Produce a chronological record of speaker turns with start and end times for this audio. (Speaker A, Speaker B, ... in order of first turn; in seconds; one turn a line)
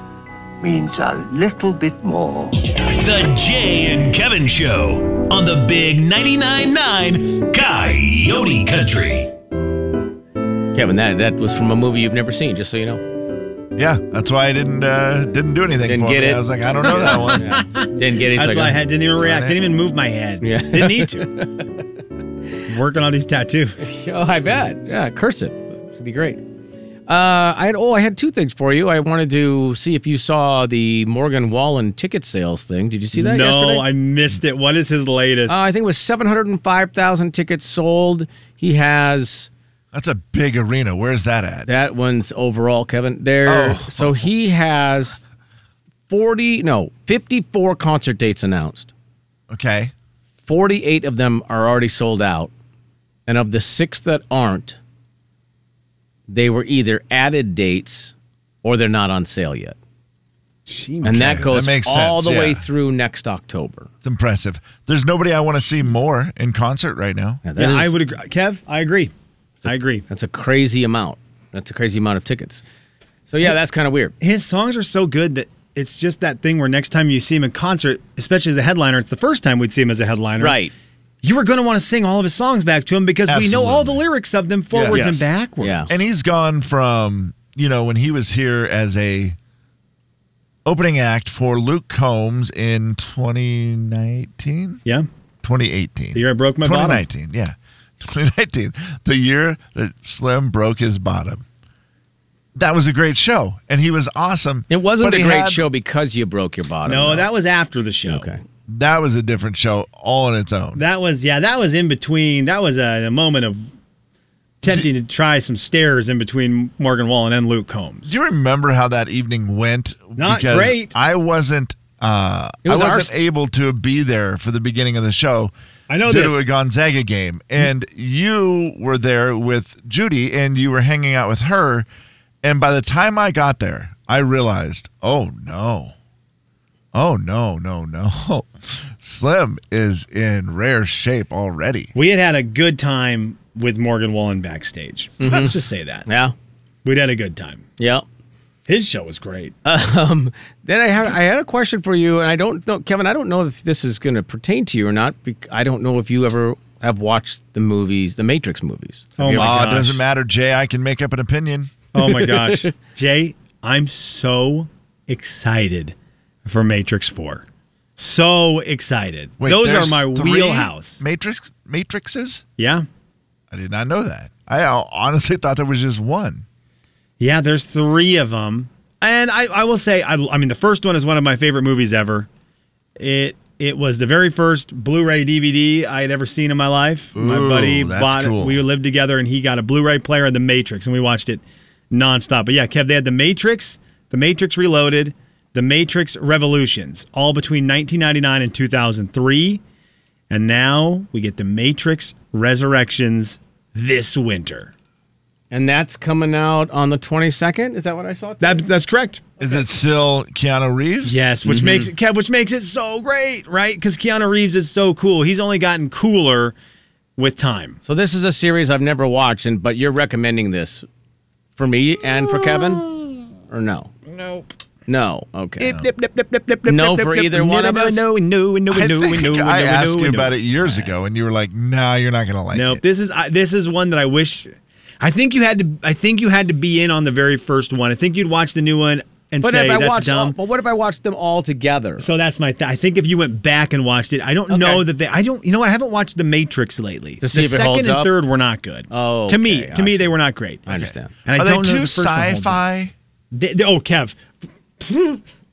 Speaker A: 0.6-2.6
Speaker B: 2.8-9.3
Speaker C: 10.7-13.0
Speaker D: 13.8-17.6
Speaker C: 15.8-18.8
Speaker E: 16.9-21.4
Speaker D: 19.2-19.7
Speaker C: 20.4-21.7
Speaker E: 22.7-23.8
Speaker C: 23.8-26.4
Speaker C: 27.1-33.9
Speaker E: 33.1-35.6
Speaker C: 35.5-39.5
Speaker D: 39.9-41.7
Speaker C: 41.7-45.2
Speaker D: 43.5-44.3
Speaker C: 46.1-48.9
Speaker D: 49.5-49.9
Speaker C: 50.5-52.5
Speaker C: 53.3-54.8
Speaker C: 56.3-59.8
Speaker E: 60.7-61.5
Speaker C: 61.0-63.9
Speaker D: 61.1-62.7
Speaker D: 64.0-67.4
Speaker C: 67.4-68.0
Speaker E: 67.6-69.1
Speaker E: 69.7-70.0
Speaker C: 69.7-72.6
Speaker C: 73.3-74.1
Speaker E: 74.2-80.6
Speaker C: 80.4-80.7
Speaker E: 81.2-86.0
Speaker D: 83.3-84.0
Speaker D: 84.7-85.1
Speaker C: 84.9-86.0
Speaker D: 85.9-89.4
Speaker D: 90.7-94.8
Speaker D: 95.4-101.5
Speaker E: 96.2-97.0
Speaker D: 102.5-105.7
Speaker C: 104.7-107.3
Speaker E: 106.8-108.4
Speaker C: 108.1-108.4
Speaker D: 108.7-110.8
Speaker E: 110.8-113.7
Speaker E: 114.6-118.2
Speaker D: 118.1-125.5
Speaker E: 120.2-120.9
Speaker C: 122.6-123.1
Speaker E: 125.9-126.4
Speaker D: 126.1-131.9
Speaker D: 132.4-135.9
Speaker D: 136.9-141.9
Speaker E: 141.9-146.1
Speaker C: 145.2-146.3
Speaker E: 146.8-147.7
Speaker C: 147.8-148.1
Speaker E: 148.7-149.6
Speaker C: 149.7-159.9
Speaker E: 159.2-160.0
Speaker D: 159.3-161.7
Speaker E: 161.9-167.4
Speaker C: 162.0-162.7
Speaker E: 168.0-171.0
Speaker D: 169.4-172.4
Speaker E: 172.6-172.9
Speaker D: 173.5-176.5
Speaker E: 177.2-182.3
Speaker E: 183.0-199.6
Speaker D: 187.2-188.7
Speaker E: 200.3-204.7
Speaker C: 205.5-208.6
Speaker E: 208.4-209.3
Speaker D: 209.4-211.4
Speaker E: 211.1-216.6
Speaker C: 211.4-211.9
Speaker E: 217.2-217.8
Speaker C: 217.8-220.8
Speaker C: 221.6-222.8
Speaker E: 222.4-223.1
Speaker C: 223.5-223.9
Speaker E: 224.1-224.5
Speaker C: 224.9-225.7
Speaker E: 225.6-230.4
Speaker C: 226.7-228.1
Speaker D: 228.7-232.8
Speaker C: 230.6-230.9
Speaker E: 232.5-240.4
Speaker C: 239.4-242.1
Speaker E: 242.0-252.6
Speaker C: 244.5-244.9
Speaker C: 247.2-248.1
Speaker C: 248.9-250.1
Speaker C: 250.7-251.1
Speaker D: 251.3-252.9
Speaker E: 253.3-254.2
Speaker E: 254.8-255.2